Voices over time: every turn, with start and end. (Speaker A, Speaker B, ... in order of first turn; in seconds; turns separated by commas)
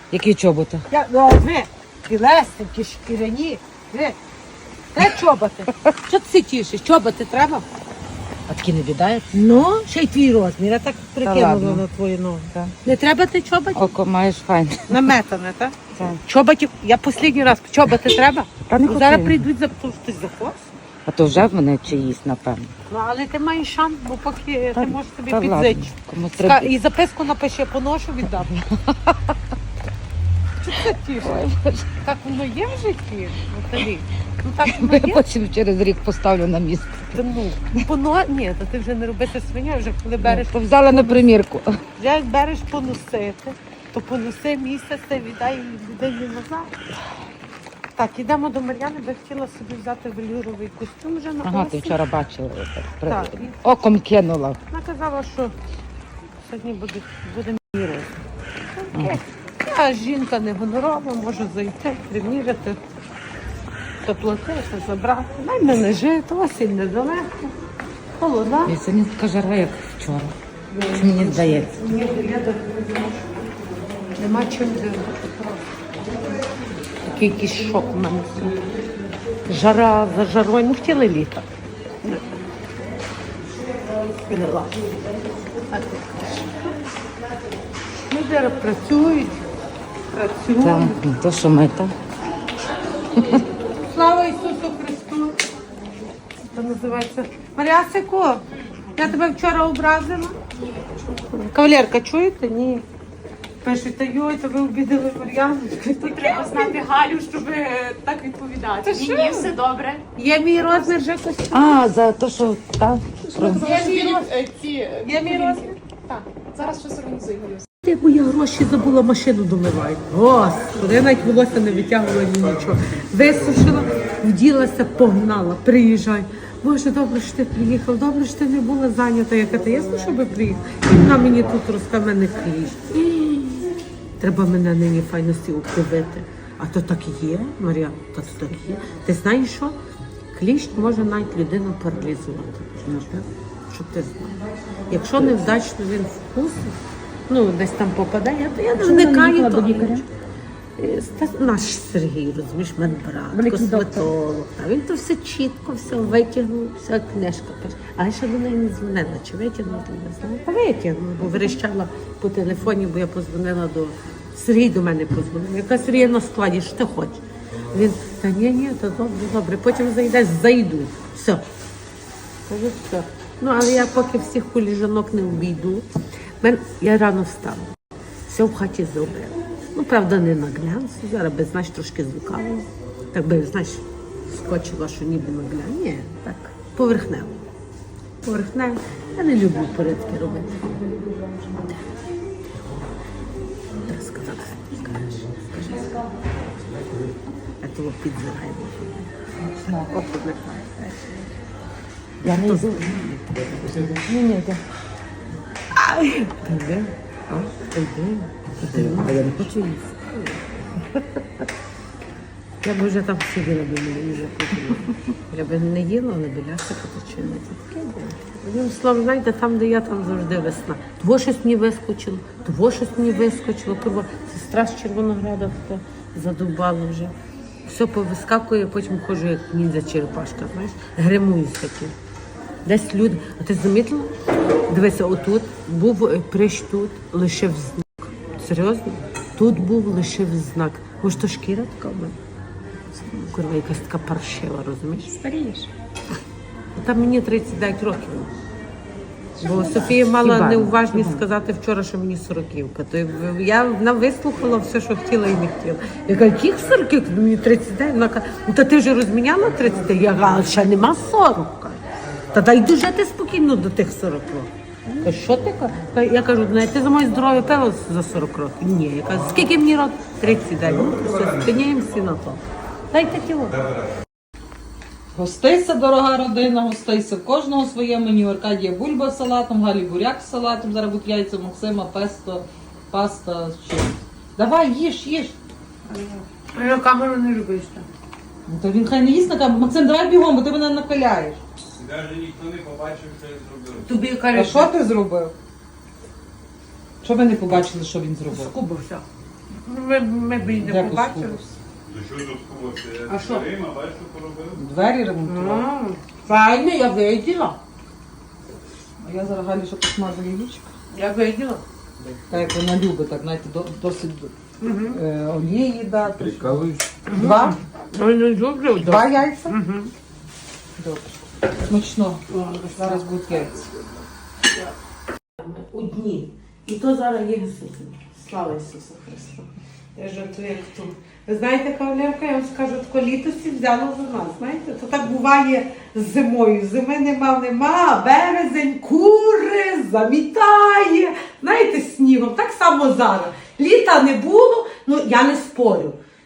Speaker A: 0.1-0.8, Speaker B: 0.9-4.2, Speaker B: 4.9-7.6, Speaker A: 8.5-9.3, Speaker B: 9.3-13.8, Speaker A: 11.2-11.8, Speaker A: 13.7-15.0, Speaker B: 14.9-20.7, Speaker A: 15.9-16.2, Speaker A: 18.7-19.4, Speaker A: 21.1-22.7, Speaker B: 22.9-28.6, Speaker A: 24.8-26.7, Speaker A: 28.9-29.2, Speaker B: 30.6-31.4, Speaker A: 31.2-31.9, Speaker B: 32.0-35.2, Speaker A: 34.6-37.2, Speaker B: 37.1-41.2, Speaker A: 40.2-41.8, Speaker B: 42.0-46.8, Speaker B: 48.0-52.0, Speaker A: 51.4-54.6, Speaker B: 53.0-53.8, Speaker B: 54.7-55.5, Speaker B: 56.4-58.2, Speaker B: 58.7-62.8, Speaker B: 64.0-67.5, Speaker B: 68.2-68.8, Speaker A: 68.6-70.3, Speaker B: 70.7-73.3, Speaker A: 70.9-71.8, Speaker B: 74.2-75.8, Speaker B: 77.1-78.5, Speaker B: 79.5-81.5, Speaker B: 84.3-84.8, Speaker B: 85.7-86.5, Speaker B: 88.1-89.4, Speaker B: 90.1-91.0, Speaker A: 90.6-91.9, Speaker B: 93.7-95.4, Speaker B: 96.5-98.4, Speaker B: 99.0-100.3, Speaker B: 101.1-102.8, Speaker B: 103.6-107.0, Speaker C: 106.1-110.0, Speaker B: 108.8-109.5, Speaker B: 110.1-111.8, Speaker A: 111.5-113.8, Speaker C: 113.3-117.7, Speaker B: 113.5-116.2, Speaker B: 117.8-133.6, Speaker B: 134.2-139.8, Speaker B: 140.3-144.3, Speaker A: 142.8-143.2, Speaker B: 144.9-150.0, Speaker A: 148.7-150.1, Speaker B: 150.8-171.4, Speaker A: 153.3-154.1, Speaker B: 172.5-175.9, Speaker B: 176.4-177.7, Speaker B: 178.3-187.4, Speaker B: 188.2-190.9, Speaker B: 193.9-196.0, Speaker B: 197.6-201.2, Speaker A: 202.2-204.6, Speaker B: 202.3-203.0, Speaker B: 205.7-210.4, Speaker A: 208.6-209.6, Speaker B: 212.6-227.1, Speaker B: 227.7-231.9, Speaker B: 232.6-234.1, Speaker B: 234.7-242.2, Speaker B: 243.2-245.3, Speaker C: 245.1-245.7, Speaker B: 246.8-248.3, Speaker A: 249.4-251.2, Speaker B: 249.4-273.6, Speaker D: 275.1-285.3, Speaker B: 285.9-287.9, Speaker D: 288.4-291.4, Speaker E: 291.8-293.9, Speaker B: 293.8-294.8, Speaker D: 294.3-295.3, Speaker D: 297.0-298.5, Speaker B: 298.3-299.0, Speaker B: 299.6-301.5, Speaker D: 300.6-301.5, Speaker E: 301.9-304.6, Speaker B: 303.1-303.4, Speaker D: 304.6-305.6, Speaker B: 305.2-307.6, Speaker D: 309.0-310.7, Speaker B: 310.9-311.6, Speaker D: 312.3-314.3, Speaker B: 314.6-315.0, Speaker D: 314.9-317.6, Speaker B: 317.1-319.9, Speaker D: 318.8-319.5, Speaker D: 320.8-322.2, Speaker B: 322.3-323.9, Speaker D: 322.8-323.6, Speaker B: 325.4-346.0